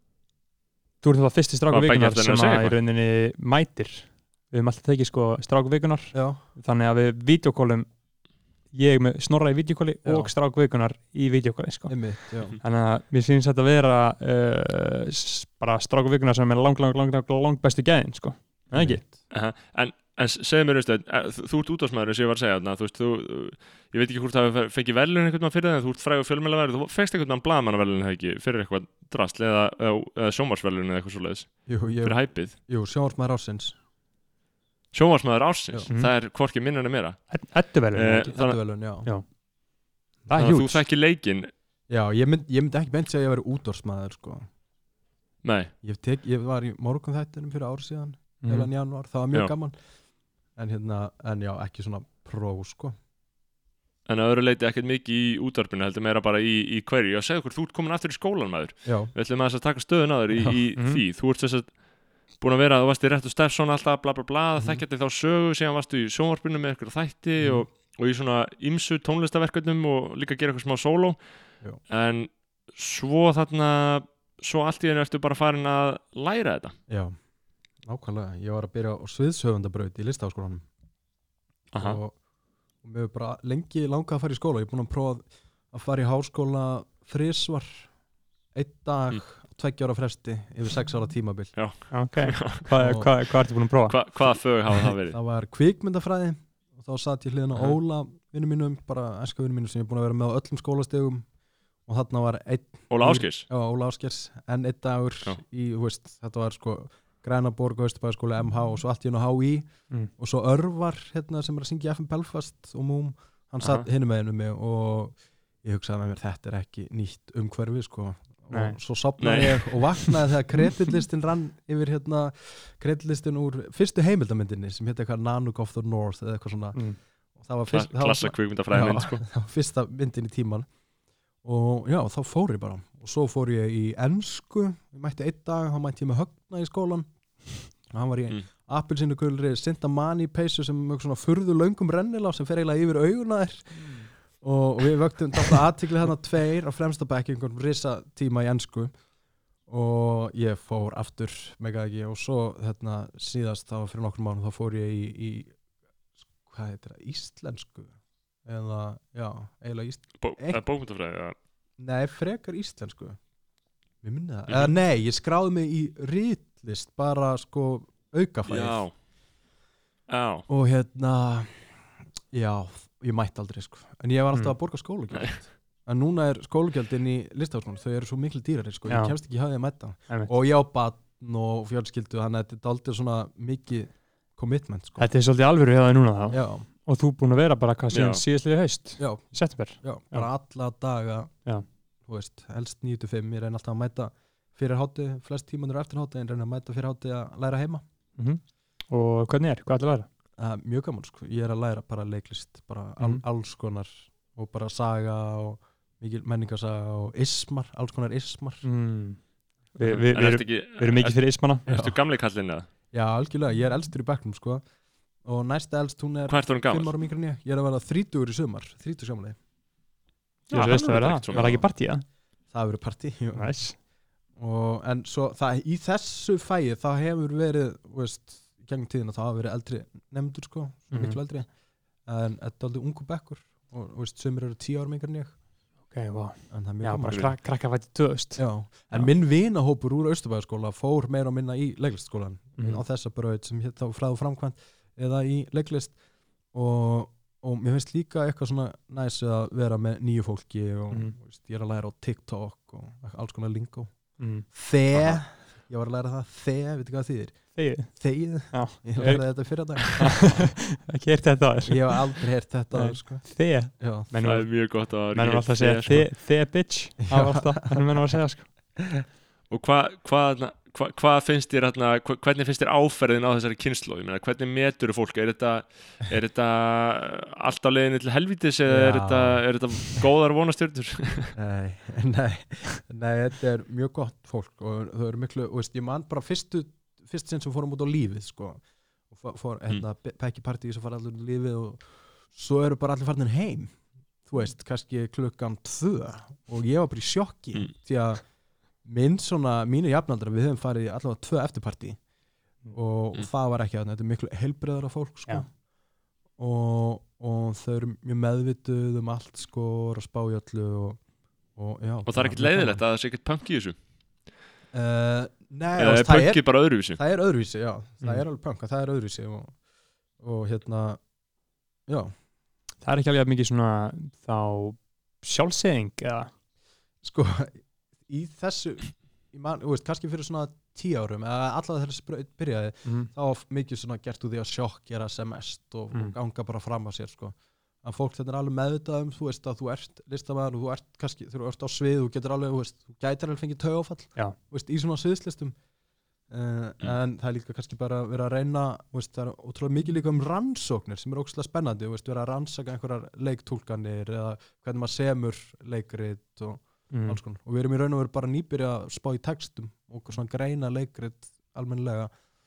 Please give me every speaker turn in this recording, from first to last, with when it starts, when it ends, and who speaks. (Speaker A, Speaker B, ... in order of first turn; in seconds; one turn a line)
Speaker A: 1.0-8.0
Speaker B: 1.7-2.8
Speaker C: 6.1-6.4
Speaker A: 8.7-19.0
Speaker C: 10.0-10.3
Speaker C: 11.9-12.5
Speaker C: 18.7-19.2
Speaker B: 19.3-32.5
Speaker C: 31.6-33.8
Speaker B: 34.9-38.9
Speaker A: 35.9-36.1
Speaker A: 37.3-38.4
Speaker C: 38.2-39.3
Speaker A: 39.0-39.3
Speaker C: 40.2-40.7
Speaker A: 40.3-40.8
Speaker B: 40.4-41.5
Speaker C: 41.9-44.5
Speaker B: 45.4-45.7
Speaker C: 45.8-53.0
Speaker A: 48.4-48.7
Speaker B: 54.0-76.8
Speaker C: 58.8-59.1
Speaker A: 60.8-61.0
Speaker C: 76.9-77.2
Speaker C: 77.8-80.7
Speaker C: 81.7-82.2
Speaker B: 81.7-82.0
Speaker C: 82.8-88.0
Speaker C: 88.5-91.9
Speaker B: 91.5-92.7
Speaker A: 91.9-94.0
Speaker C: 92.8-93.1
Speaker B: 93.9-95.2
Speaker C: 94.9-130.7
Speaker B: 97.5-97.8
Speaker B: 102.9-103.5
Speaker B: 113.6-113.9
Speaker A: 118.5-118.8
Speaker B: 119.2-120.2
Speaker B: 127.7-129.3
Speaker C: 131.4-149.0
Speaker A: 143.7-144.1
Speaker C: 149.6-155.6
Speaker C: 156.4-160.6
Speaker B: 160.2-161.3
Speaker C: 161.8-163.2
Speaker C: 164.0-169.0
Speaker B: 164.5-164.7
Speaker B: 168.4-168.9
Speaker B: 170.1-170.5
Speaker C: 170.5-185.1
Speaker A: 178.9-179.5
Speaker A: 185.0-190.3
Speaker C: 186.3-186.7
Speaker B: 187.9-188.2
Speaker C: 189.0-197.8
Speaker A: 198.2-200.1
Speaker C: 200.4-208.6
Speaker A: 203.0-203.2
Speaker A: 208.6-211.6
Speaker B: 209.8-212.7
Speaker C: 211.7-212.0
Speaker C: 212.9-214.7
Speaker C: 215.2-219.4
Speaker B: 216.3-216.9
Speaker B: 220.5-221.7
Speaker A: 220.5-222.0
Speaker C: 221.3-221.8
Speaker C: 222.5-235.4
Speaker A: 223.3-223.8
Speaker A: 230.9-231.2
Speaker A: 235.9-239.1
Speaker C: 236.5-237.5
Speaker B: 237.1-237.4
Speaker C: 238.4-260.5
Speaker A: 242.6-242.8
Speaker A: 254.2-254.5
Speaker B: 254.9-255.2
Speaker A: 257.5-268.5
Speaker C: 261.6-264.1
Speaker B: 264.2-266.2
Speaker C: 267.1-267.8
Speaker B: 269.5-281.3
Speaker C: 278.7-280.0
Speaker C: 281.3-302.1
Speaker C: 302.6-305.6
Speaker C: 306.3-312.8
Speaker B: 312.0-313.8
Speaker C: 314.7-319.6
Speaker B: 315.8-317.0
Speaker C: 320.2-321.1
Speaker C: 321.9-322.1
Speaker A: 322.8-326.3
Speaker C: 327.0-345.6
Speaker A: 332.8-333.1
Speaker C: 346.3-362.1
Speaker A: 356.9-357.2